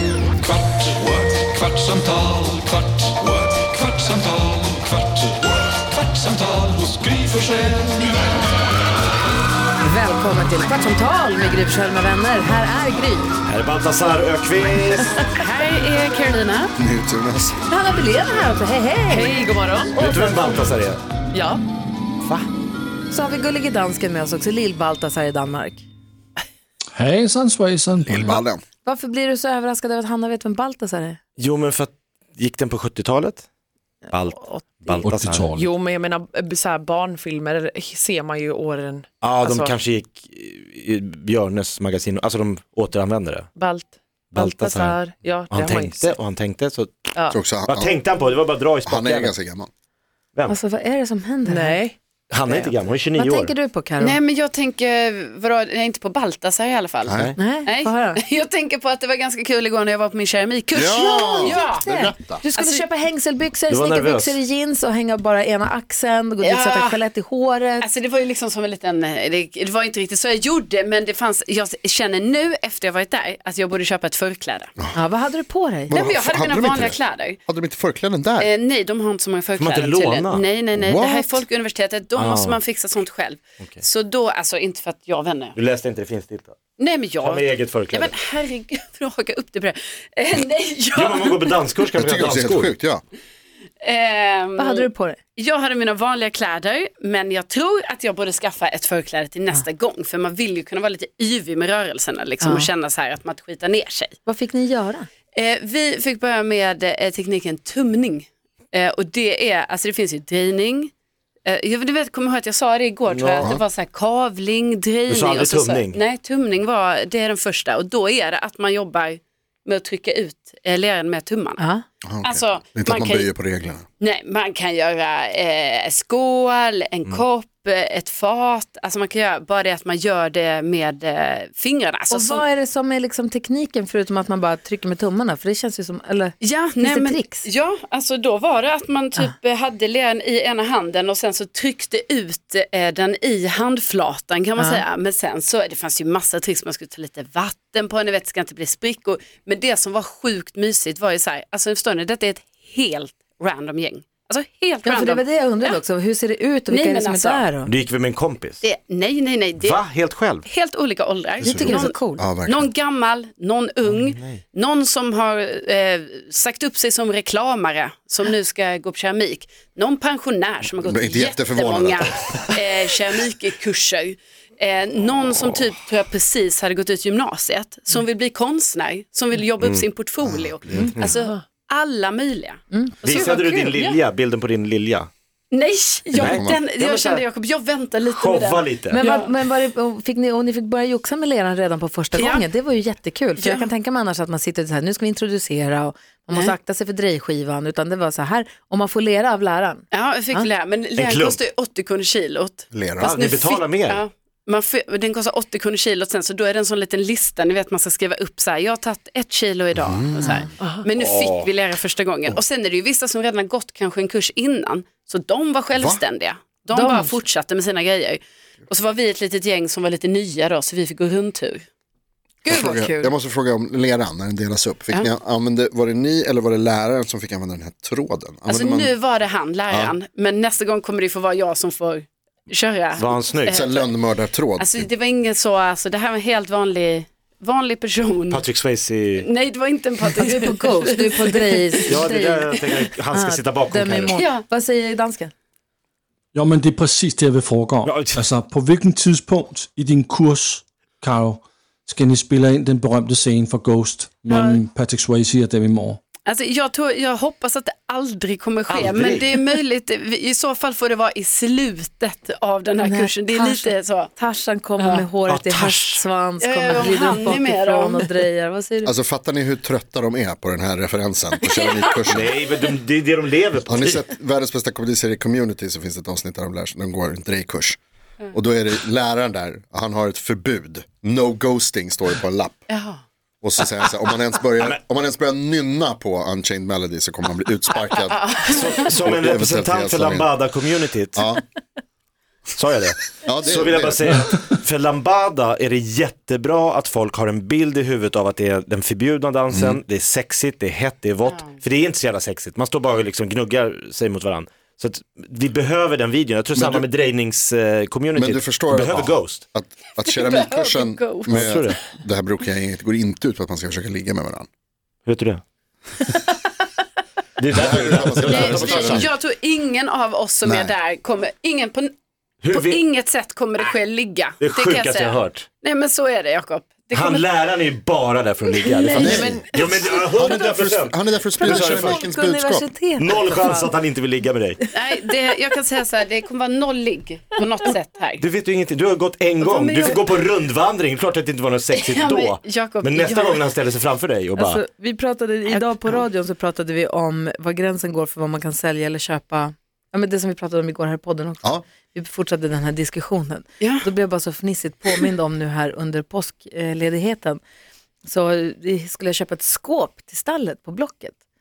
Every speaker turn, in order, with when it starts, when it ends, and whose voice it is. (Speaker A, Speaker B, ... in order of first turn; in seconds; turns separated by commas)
Speaker A: 0.7-5.1, Speaker A: 6.3-8.0, Speaker B: 6.9-7.4, Speaker C: 9.8-13.3, Speaker D: 13.4-15.4, Speaker E: 15.4-16.7, Speaker F: 16.8-17.6, Speaker C: 17.7-19.4, Speaker G: 19.1-20.2, Speaker D: 19.9-21.0, Speaker C: 20.0-20.5, Speaker G: 21.3-21.6, Speaker D: 22.2-22.5, Speaker C: 23.1-25.9, Speaker B: 26.9-28.2, Speaker F: 28.0-28.6, Speaker C: 28.8-31.2, Speaker D: 31.4-33.5, Speaker D: 34.1-35.5, Speaker B: 35.0-35.6, Speaker G: 35.5-39.8, Speaker D: 39.2-43.5, Speaker G: 43.5-46.2, Speaker D: 44.3-49.3, Speaker G: 47.1-47.4, Speaker F: 47.3-47.9, Speaker F: 48.9-49.7, Speaker C: 50.5-51.8, Speaker G: 51.4-52.0, Speaker D: 52.3-53.5, Speaker C: 53.1-54.2, Speaker E: 54.0-61.9, Speaker F: 57.0-57.3, Speaker D: 57.1-57.4, Speaker C: 57.4-58.2, Speaker F: 60.7-62.4, Speaker C: 60.8-67.9, Speaker E: 62.5-62.9, Speaker D: 63.7-64.4, Speaker E: 66.4-67.0, Speaker E: 67.8-74.7, Speaker C: 74.9-75.9, Speaker E: 75.9-77.4, Speaker F: 75.9-78.5, Speaker E: 78.4-85.5, Speaker D: 79.5-80.7, Speaker F: 80.8-81.4, Speaker D: 82.1-82.7, Speaker D: 85.5-86.6, Speaker E: 86.8-87.4, Speaker D: 87.1-88.2, Speaker E: 87.9-91.5, Speaker D: 90.9-92.7, Speaker F: 91.9-93.0, Speaker E: 93.8-104.2, Speaker C: 94.6-95.2, Speaker C: 102.4-102.7, Speaker C: 104.2-105.1, Speaker E: 105.3-110.9, Speaker E: 111.4-121.6, Speaker D: 113.1-113.6, Speaker D: 115.1-116.1, Speaker C: 121.6-121.8, Speaker F: 122.0-123.8, Speaker E: 122.2-123.3, Speaker E: 124.0-132.4, Speaker C: 132.1-137.4, Speaker E: 136.4-155.8, Speaker C: 144.6-144.8, Speaker C: 154.8-157.7, Speaker E: 156.7-157.5, Speaker D: 157.6-158.6, Speaker E: 158.6-159.8, Speaker D: 159.5-160.5, Speaker E: 160.4-184.0, Speaker C: 161.4-162.2, Speaker F: 161.4-162.7, Speaker D: 163.8-164.4, Speaker F: 170.8-172.3, Speaker D: 179.6-179.9, Speaker F: 180.2-181.1, Speaker G: 180.7-181.4, Speaker D: 180.8-181.1, Speaker C: 182.7-183.0, Speaker D: 183.0-185.1, Speaker E: 185.5-189.3, Speaker D: 186.1-187.3, Speaker F: 186.2-186.6, Speaker D: 188.0-189.0, Speaker C: 188.9-200.5, Speaker E: 199.9-221.7, Speaker D: 200.9-201.4, Speaker F: 202.7-203.1, Speaker D: 203.0-204.0, Speaker F: 209.7-210.5, Speaker D: 210.9-211.8, Speaker F: 215.7-216.0, Speaker C: 216.7-217.2, Speaker C: 222.4-223.1, Speaker F: 222.4-228.9, Speaker E: 228.4-233.1, Speaker F: 229.7-229.9, Speaker D: 233.0-233.7, Speaker F: 233.5-234.9, Speaker E: 234.6-238.4, Speaker D: 238.3-239.3, Speaker E: 239.2-241.9, Speaker C: 240.1-245.3, Speaker D: 241.8-244.2, Speaker E: 244.2-244.4, Speaker B: 246.3-256.0, Speaker D: 247.8-248.2, Speaker E: 256.3-264.1, Speaker D: 258.7-259.4, Speaker C: 262.8-268.9, Speaker E: 264.8-265.1, Speaker D: 265.3-266.0, Speaker E: 266.4-268.2, Speaker F: 268.8-272.3, Speaker D: 272.1-274.0, Speaker F: 273.7-277.8, Speaker F: 278.3-282.6, Speaker E: 282.7-283.0, Speaker F: 283.4-290.3, Speaker E: 288.1-288.8, Speaker D: 288.4-291.2, Speaker F: 291.1-291.4, Speaker D: 292.6-309.4, Speaker F: 293.2-294.2, Speaker F: 299.5-299.8, Speaker E: 301.3-301.6, Speaker F: 306.5-306.8, Speaker F: 308.1-314.5, Speaker E: 310.0-311.3, Speaker D: 311.3-311.8, Speaker D: 315.1-315.4, Speaker D: 317.4-319.2, Speaker F: 317.5-319.1, Speaker E: 319.0-321.9, Speaker F: 320.4-320.7, Speaker D: 322.4-323.1, Speaker E: 322.7-327.2, Speaker D: 324.4-325.5, Speaker D: 326.9-332.0, Speaker E: 328.9-329.5, Speaker F: 328.9-329.4, Speaker G: 329.1-330.0, Speaker F: 330.0-332.7, Speaker C: 331.4-333.7, Speaker D: 333.0-334.6, Speaker E: 334.7-338.2, Speaker D: 338.2-344.6, Speaker E: 339.5-339.8, Speaker E: 341.8-343.3, Speaker C: 344.4-357.4, Speaker C: 358.0-361.2